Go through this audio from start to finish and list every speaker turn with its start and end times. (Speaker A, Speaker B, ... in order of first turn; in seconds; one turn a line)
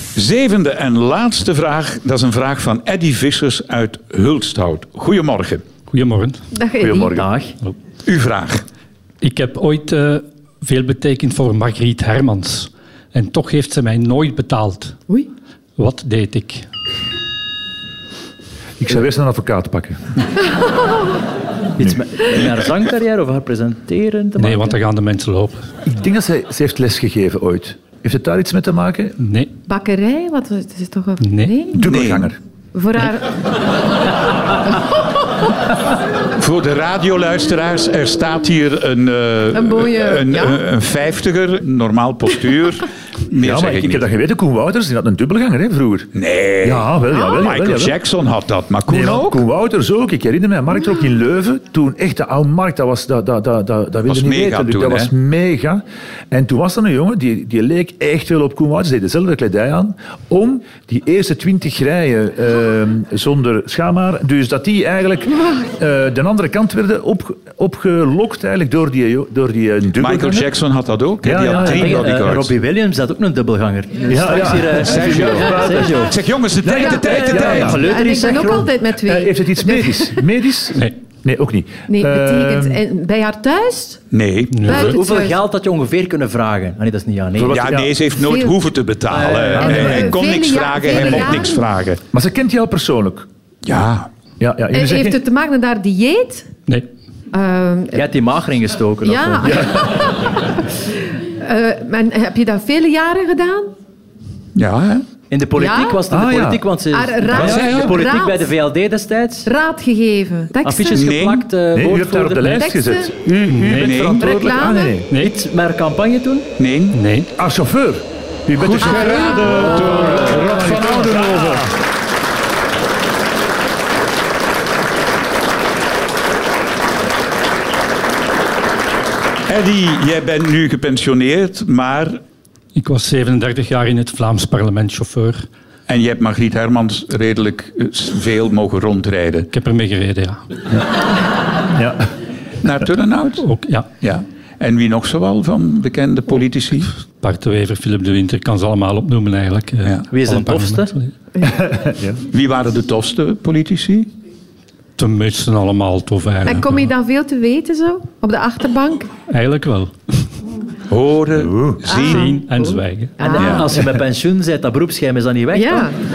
Speaker A: 0.1-5.7
Speaker B: 5.9-6.4
Speaker C: 6.5-7.2
Speaker D: 6.8-7.3
Speaker E: 7.2-7.5
Speaker A: 8.1-8.6
Speaker B: 9.2-15.0
Speaker B: 15.8-16.7
Speaker D: 18.8-20.1
Speaker E: 21.8-24.8
Speaker D: 21.8-22.5
Speaker B: 24.4-25.6
Speaker D: 25.9-29.2
Speaker B: 29.2-29.5
Speaker C: 29.7-31.9
Speaker B: 31.2-31.6
Speaker D: 31.7-32.4
Speaker A: 31.8-32.3
Speaker C: 32.7-33.4
Speaker A: 36.4-44.1
Speaker C: 39.5-40.6
Speaker D: 43.4-48.0
Speaker A: 46.1-49.4
Speaker D: 48.9-70.5
Speaker A: 54.1-55.1
Speaker A: 70.0-72.6
Speaker D: 71.2-72.2
Speaker E: 71.5-76.2
Speaker D: 74.0-76.1
Speaker A: 74.8-77.9
Speaker D: 76.6-77.9
Speaker C: 76.7-80.2
Speaker E: 77.1-78.7
Speaker D: 79.0-82.8
Speaker C: 81.9-84.0
Speaker A: 84.1-84.8
Speaker B: 84.5-84.9
Speaker C: 84.6-85.4
Speaker E: 84.7-87.6
Speaker D: 87.3-88.0
Speaker A: 87.5-92.0
Speaker C: 88.2-88.6
Speaker E: 89.1-90.1
Speaker D: 89.5-90.1
Speaker C: 89.6-91.7
Speaker D: 90.9-91.4
Speaker D: 92.1-93.3
Speaker A: 93.7-94.1
Speaker D: 94.4-95.2
Speaker C: 94.7-96.5
Speaker C: 97.3-98.1
Speaker E: 97.9-99.6
Speaker C: 99.0-103.7
Speaker D: 99.4-100.0
Speaker A: 104.5-105.1
Speaker E: 105.3-109.5
Speaker C: 105.6-106.0
Speaker D: 106.1-106.6
Speaker C: 106.9-108.5
Speaker A: 107.3-108.0
Speaker C: 109.5-111.1
Speaker E: 110.6-112.3
Speaker A: 111.0-111.5
Speaker D: 111.7-115.2
Speaker C: 112.2-113.1
Speaker B: 113.5-114.0
Speaker A: 113.7-114.3
Speaker C: 114.2-115.0
Speaker B: 115.1-115.3
Speaker E: 115.2-116.5
Speaker A: 116.6-117.0
Speaker B: 116.9-117.3
Speaker D: 117.4-121.7
Speaker A: 118.6-121.7
Speaker C: 119.0-119.4
Speaker E: 119.5-120.4
Speaker A: 129.5-132.2
Speaker B: 132.8-135.5
Speaker A: 135.9-139.5
Speaker B: 139.5-140.4
Speaker D: 141.7-142.1
Speaker A: 142.6-146.9
Speaker B: 143.4-143.9
Speaker B: 147.1-151.1
Speaker E: 150.1-150.9
Speaker D: 151.5-152.2
Speaker A: 152.3-154.1
Speaker B: 155.0-156.8
Speaker C: 156.4-159.1
Speaker B: 159.3-160.2
Speaker A: 160.9-162.4
Speaker D: 161.4-161.8
Speaker C: 161.9-163.6
Speaker B: 162.0-163.3
Speaker E: 163.2-165.9
Speaker A: 163.4-163.7
Speaker C: 165.5-166.0